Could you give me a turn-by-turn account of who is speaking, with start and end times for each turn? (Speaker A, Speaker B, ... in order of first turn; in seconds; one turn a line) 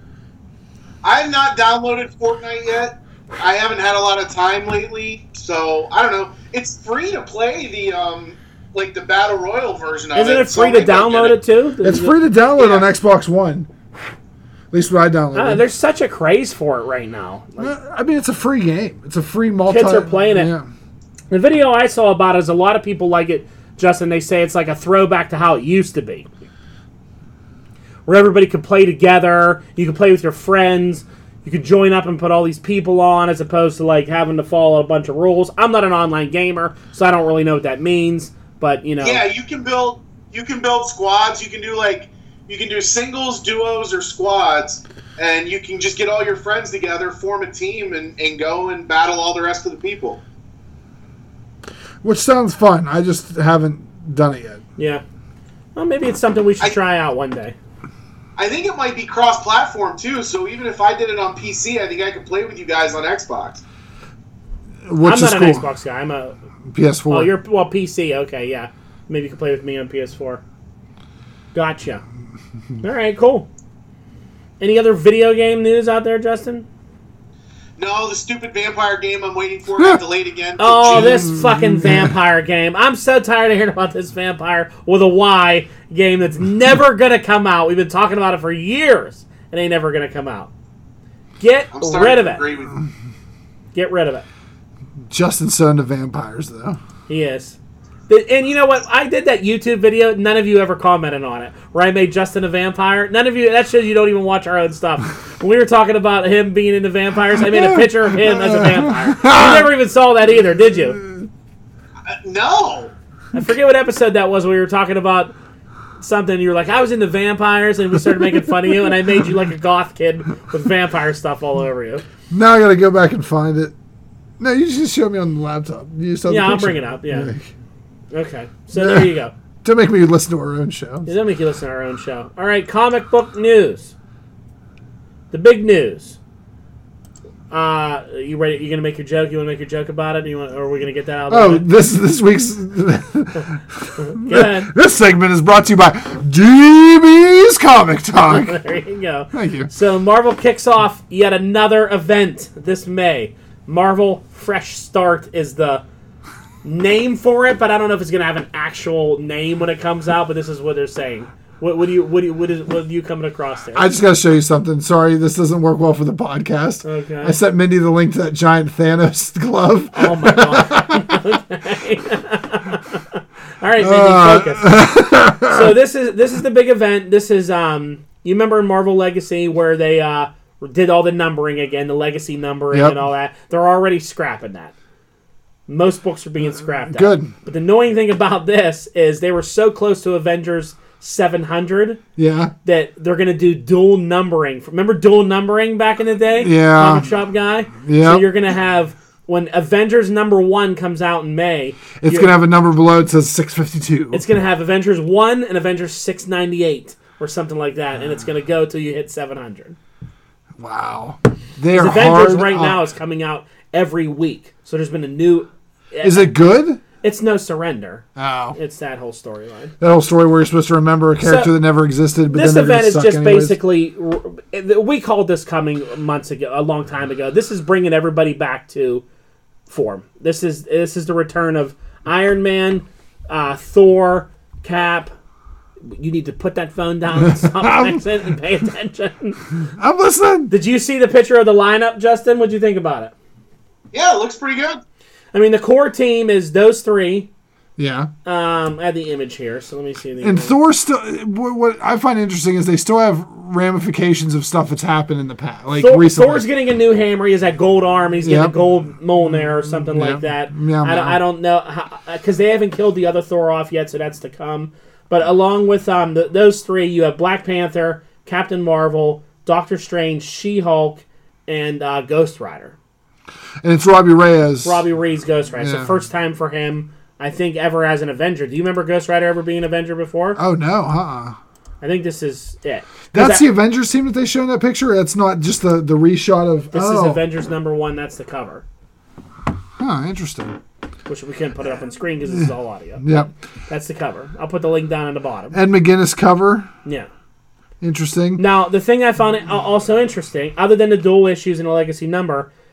Speaker A: 1.0-11.4
Speaker B: 10.1-12.8
Speaker C: 11.8-13.7
Speaker C: 14.7-15.6
Speaker B: 15.3-17.7
Speaker C: 17.6-20.7
Speaker B: 19.7-20.5
Speaker B: 21.3-26.3
Speaker B: 28.1-39.2
Speaker A: 39.0-50.2
Speaker C: 52.0-54.6
Speaker B: 54.8-55.0
Speaker B: 55.7-57.5
Speaker A: 58.4-63.6
Speaker C: 64.9-65.7
Speaker B: 65.0-66.3
Speaker C: 66.7-67.3
Speaker B: 67.1-70.4
Speaker B: 71.5-72.0
Speaker B: 72.8-73.5
Speaker B: 74.6-76.7
Speaker A: 77.8-81.3
Speaker B: 80.6-90.5
Speaker C: 80.9-82.2
Speaker B: 91.4-92.4
Speaker A: 91.7-92.8
Speaker B: 93.7-94.2
Speaker C: 95.1-96.8
Speaker B: 97.1-97.6
Speaker B: 98.1-111.0
Speaker C: 107.4-109.7
Speaker C: 111.0-111.3
Speaker A: 112.1-112.9
Speaker B: 113.3-115.3
Speaker B: 116.0-122.0
Speaker C: 122.3-123.7
Speaker C: 124.4-127.5
Speaker B: 126.3-127.3
Speaker B: 128.1-129.3
Speaker C: 128.7-129.1
Speaker C: 129.6-131.1
Speaker B: 131.1-133.9
Speaker B: 135.3-136.2
Speaker B: 137.5-141.7
Speaker C: 141.3-148.6
Speaker B: 144.0-144.7
Speaker B: 148.3-155.8
Speaker C: 149.3-149.7
Speaker B: 156.6-163.8
Speaker C: 163.7-171.1
Speaker B: 166.8-167.3
Speaker B: 169.9-174.8
Speaker C: 173.8-175.7
Speaker B: 175.4-184.7
Speaker C: 182.7-183.0
Speaker B: 185.7-192.0
Speaker C: 186.5-187.3
Speaker C: 192.2-192.5
Speaker B: 192.6-202.3
Speaker C: 196.4-197.1
Speaker C: 197.8-198.3
Speaker C: 202.0-204.2
Speaker B: 204.1-209.8
Speaker C: 210.6-212.8
Speaker B: 211.7-216.3
Speaker C: 216.0-216.8
Speaker B: 216.9-219.7
Speaker C: 218.2-218.6
Speaker C: 219.8-223.6
Speaker B: 221.2-221.5
Speaker B: 222.3-229.0
Speaker B: 229.7-235.1
Speaker B: 235.9-239.4
Speaker C: 237.3-238.0
Speaker C: 239.6-240.5
Speaker B: 240.5-243.1
Speaker A: 243.9-244.8
Speaker B: 245.3-247.3
Speaker C: 247.8-248.1
Speaker B: 248.2-250.5
Speaker C: 250.2-256.4
Speaker B: 255.8-272.8
Speaker C: 258.2-258.6
Speaker C: 259.9-261.2
Speaker C: 273.6-274.8
Speaker B: 274.6-280.4
Speaker C: 275.6-275.9
Speaker C: 280.4-281.4
Speaker B: 281.8-283.4
Speaker C: 283.1-287.2
Speaker B: 286.7-288.6
Speaker C: 289.8-290.6
Speaker B: 291.1-295.6
Speaker C: 293.0-293.3
Speaker C: 295.5-296.7
Speaker C: 297.8-298.4
Speaker B: 298.4-302.5